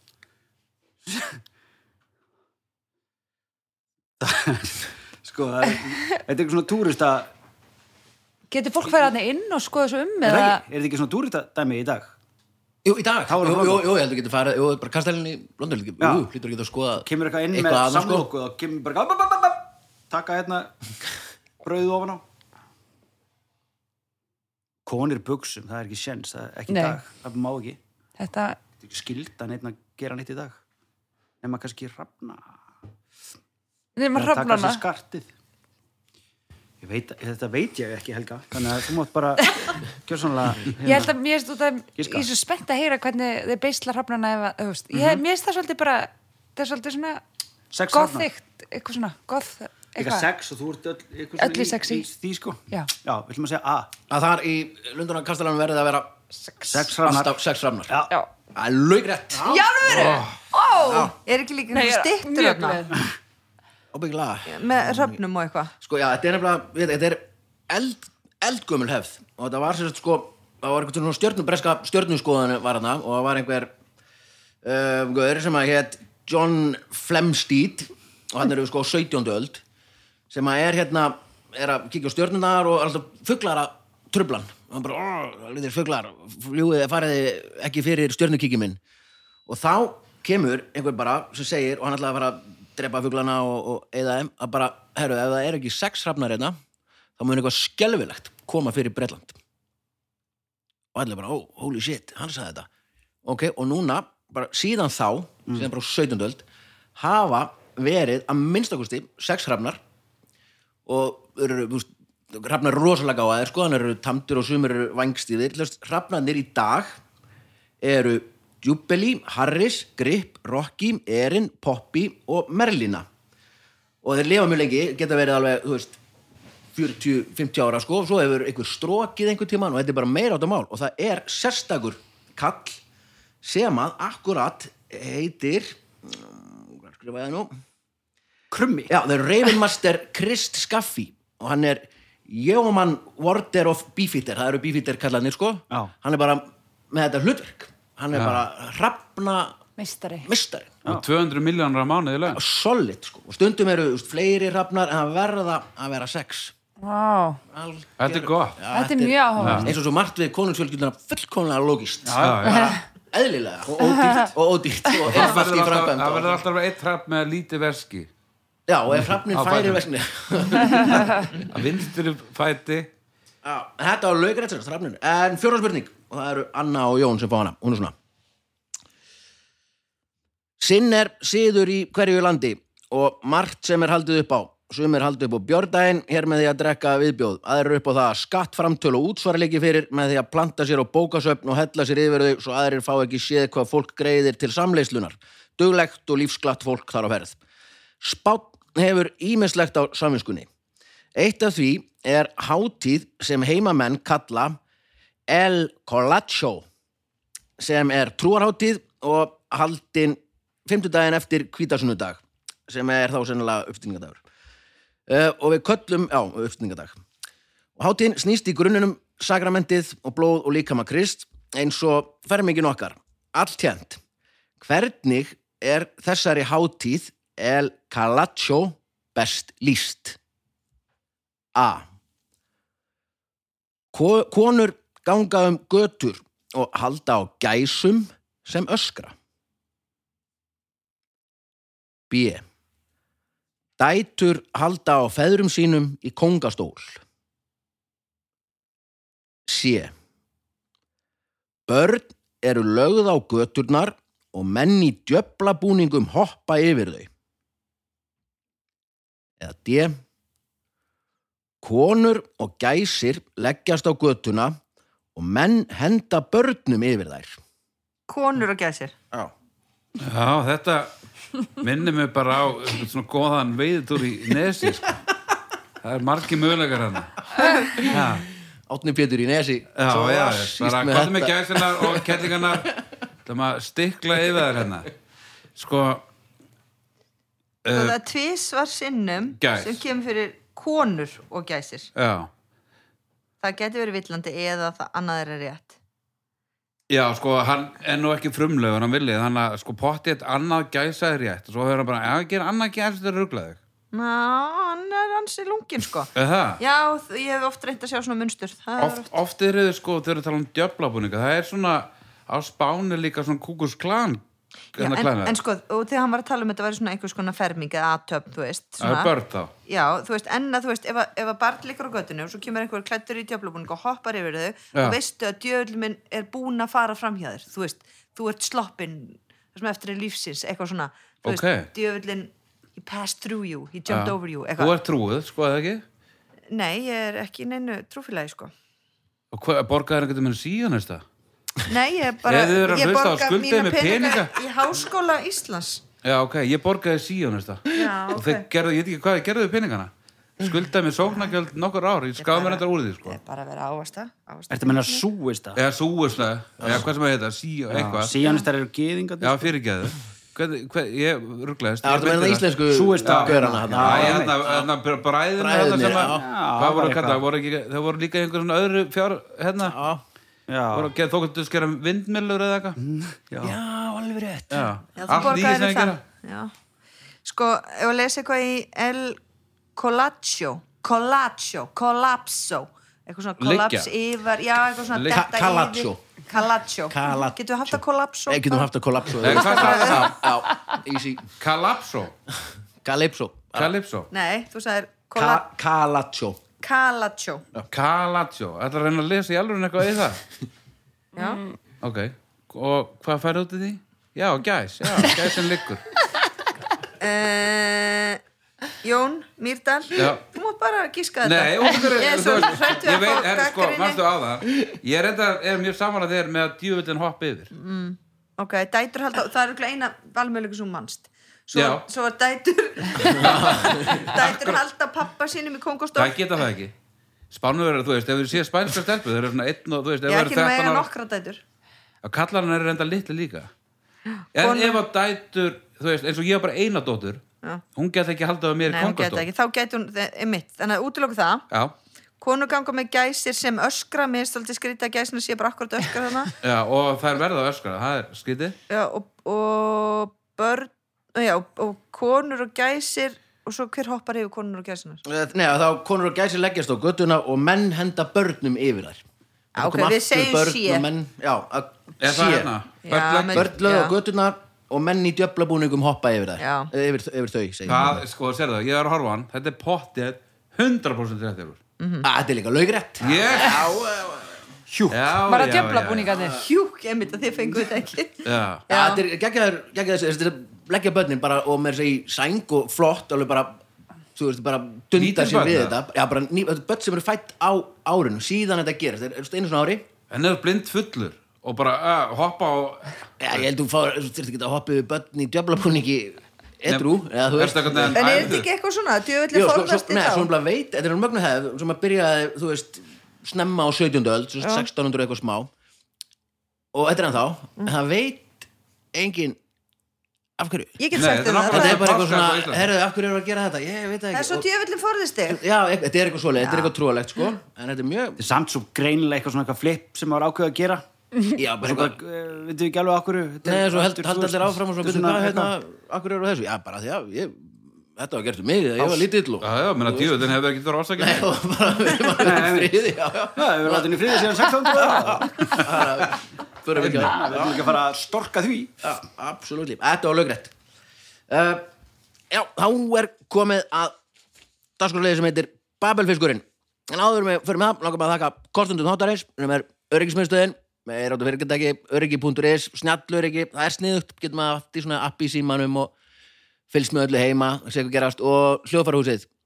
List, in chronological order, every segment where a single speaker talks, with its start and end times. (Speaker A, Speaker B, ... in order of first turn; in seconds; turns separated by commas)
Speaker A: 1.1-1.4, Speaker A: 4.2-7.3, Speaker B: 8.5-10.6, Speaker A: 10.2-12.2, Speaker C: 12.8-18.3, Speaker A: 13.3-13.9, Speaker A: 16.0-16.3, Speaker A: 17.0-20.7, Speaker A: 21.6-22.2, Speaker A: 24.9-27.8, Speaker B: 26.7-27.0, Speaker B: 28.2-28.6, Speaker A: 28.8-30.6, Speaker A: 31.4-32.6, Speaker B: 34.0-34.8, Speaker A: 34.1-35.3, Speaker A: 36.8-41.1, Speaker B: 40.8-47.2, Speaker A: 42.0-42.3, Speaker A: 44.9-45.2, Speaker A: 47.7-48.3, Speaker B: 47.9-50.3, Speaker A: 50.0-53.9, Speaker B: 51.4-52.1, Speaker C: 54.1-56.1, Speaker B: 56.4-56.9, Speaker A: 56.7-58.1, Speaker C: 57.0-57.9, Speaker C: 58.5-60.0, Speaker B: 59.5-61.1, Speaker D: 59.9-60.3, Speaker C: 60.8-61.1, Speaker E: 61.2-62.8, Speaker B: 61.7-63.0, Speaker C: 63.9-65.2, Speaker E: 64.5-65.7, Speaker C: 65.8-73.7, Speaker C: 74.6-79.6, Speaker C: 80.3-88.8, Speaker C: 89.5-96.6, Speaker C: 97.2-99.4, Speaker C: 100.9-102.7, Speaker C: 103.2-106.4, Speaker C: 107.0-109.8, Speaker C: 110.9-117.0, Speaker C: 117.8-123.1, Speaker C: 124.0-126.0, Speaker C: 126.8-132.8, Speaker C: 133.4-137.6, Speaker A: 138.5-138.9, Speaker C: 138.9-149.6, Speaker D: 148.1-148.4, Speaker B: 149.8-150.3, Speaker C: 150.2-150.8, Speaker D: 150.9-152.4, Speaker C: 152.3-156.5, Speaker B: 156.8-157.4, Speaker C: 157.5-162.5, Speaker D: 158.0-158.6, Speaker B: 158.7-159.7, Speaker D: 159.4-159.7, Speaker A: 159.4-159.7, Speaker A: 162.1-162.8, Speaker D: 162.2-162.8, Speaker B: 162.5-162.8, Speaker C: 163.1-166.4, Speaker A: 163.7-164.3, Speaker B: 163.8-164.3, Speaker D: 165.0-168.1, Speaker C: 168.7-171.3, Speaker D: 169.3-169.8, Speaker D: 171.3-172.9, Speaker C: 173.4-177.9, Speaker C: 180.6-197.4, Speaker C: 198.0-200.5, Speaker C: 201.2-204.6, Speaker C: 205.3-206.7, Speaker C: 207.6-214.2, Speaker C: 215.1-217.0, Speaker C: 217.8-224.0, Speaker C: 224.6-230.2, Speaker C: 231.6-231.8, Speaker C: 233.9-239.2, Speaker C: 242.1-242.4, Speaker C: 243.8-247.0, Speaker C: 249.5-249.9, Speaker C: 251.7-257.1, Speaker C: 259.4-260.0, Speaker C: 261.6-264.6, Speaker C: 265.1-267.4, Speaker E: 268.1-268.9, Speaker D: 270.0-270.9, Speaker D: 271.6-275.0, Speaker D: 275.8-278.2, Speaker A: 277.9-278.2, Speaker C: 278.7-282.6, Speaker D: 279.8-284.9, Speaker D: 285.6-286.1, Speaker D: 287.6-288.0, Speaker E: 287.7-291.9, Speaker D: 289.4-289.8, Speaker D: 292.0-292.3, Speaker E: 293.4-295.8, Speaker D: 296.9-303.6, Speaker E: 303.9-309.1, Speaker D: 306.1-306.6, Speaker D: 308.8-314.2, Speaker D: 314.8-315.4, Speaker E: 314.8-319.1, Speaker D: 318.8-319.5, Speaker E: 319.7-334.8, Speaker D: 331.2-331.7, Speaker D: 333.9-335.8, Speaker E: 336.5-338.5, Speaker D: 339.3-341.0, Speaker E: 341.6-345.8, Speaker D: 342.2-344.4, Speaker D: 346.0-353.2, Speaker E: 347.7-348.5, Speaker E: 352.2-355.1, Speaker A: 354.5-355.6, Speaker D: 355.6-358.2, Speaker C: 356.6-356.9, Speaker A: 357.7-359.5, Speaker D: 359.2-362.5, Speaker C: 361.8-364.6, Speaker A: 362.7-364.5, Speaker D: 363.0-369.8, Speaker C: 365.4-366.3, Speaker A: 366.0-367.2, Speaker C: 369.6-370.0, Speaker A: 370.5-370.9, Speaker D: 370.7-372.8, Speaker A: 372.8-373.6, Speaker C: 373.4-374.7, Speaker D: 374.5-376.0, Speaker E: 375.0-376.5, Speaker E: 377.2-379.2, Speaker E: 379.8-388.6, Speaker D: 383.4-383.9, Speaker D: 384.9-385.2, Speaker C: 385.1-386.0, Speaker C: 386.9-391.3, Speaker D: 389.2-390.2, Speaker E: 389.2-390.2, Speaker D: 391.4-392.1, Speaker C: 392.8-393.7, Speaker D: 393.6-394.1, Speaker E: 394.1-395.4, Speaker C: 395.1-396.4, Speaker E: 396.6-397.4, Speaker D: 397.7-400.2, Speaker E: 401.1-401.4, Speaker B: 401.2-401.5, Speaker D: 401.8-405.9, Speaker E: 407.0-408.2, Speaker E: 408.8-414.0, Speaker D: 409.9-410.2, Speaker D: 411.2-417.5, Speaker E: 417.5-426.2, Speaker D: 421.5-421.9, Speaker D: 423.0-424.6, Speaker C: 423.1-424.1, Speaker D: 426.0-426.7, Speaker D: 427.3-430.9, Speaker E: 430.1-431.4, Speaker D: 432.0-433.5, Speaker E: 434.1-434.8, Speaker D: 434.4-437.2, Speaker D: 437.8-439.2, Speaker E: 438.7-441.4, Speaker E: 442.2-446.3, Speaker D: 446.4-448.6, Speaker E: 448.7-455.0, Speaker C: 455.1-459.0, Speaker C: 459.6-462.5, Speaker E: 459.6-460.9, Speaker D: 462.0-463.5, Speaker E: 462.9-463.9, Speaker C: 463.3-468.0, Speaker E: 466.4-466.7, Speaker D: 467.7-471.6, Speaker E: 471.8-472.1, Speaker C: 472.0-474.4, Speaker D: 473.0-473.7, Speaker D: 474.9-476.1, Speaker B: 475.3-476.4, Speaker C: 476.1-476.4, Speaker E: 476.4-479.0, Speaker D: 478.2-478.6, Speaker C: 478.7-483.6, Speaker C: 484.1-489.9, Speaker D: 485.0-485.8, Speaker D: 490.1-493.0, Speaker C: 493.2-498.3, Speaker D: 496.7-498.5, Speaker E: 497.9-500.3, Speaker C: 499.3-505.5, Speaker E: 504.4-504.7, Speaker C: 506.7-509.4, Speaker C: 510.4-514.5, Speaker E: 510.8-511.8, Speaker D: 510.9-512.7, Speaker E: 514.1-515.4, Speaker C: 515.2-518.2, Speaker E: 516.4-516.7, Speaker A: 518.2-520.8, Speaker C: 521.4-522.0, Speaker A: 521.6-525.5, Speaker C: 523.4-530.3, Speaker D: 529.4-531.3, Speaker C: 531.0-537.7, Speaker A: 532.2-532.7, Speaker A: 533.4-536.0, Speaker A: 536.8-538.7, Speaker C: 538.8-540.5, Speaker C: 541.3-541.6, Speaker C: 542.3-544.0, Speaker C: 544.8-555.9, Speaker C: 556.7-559.3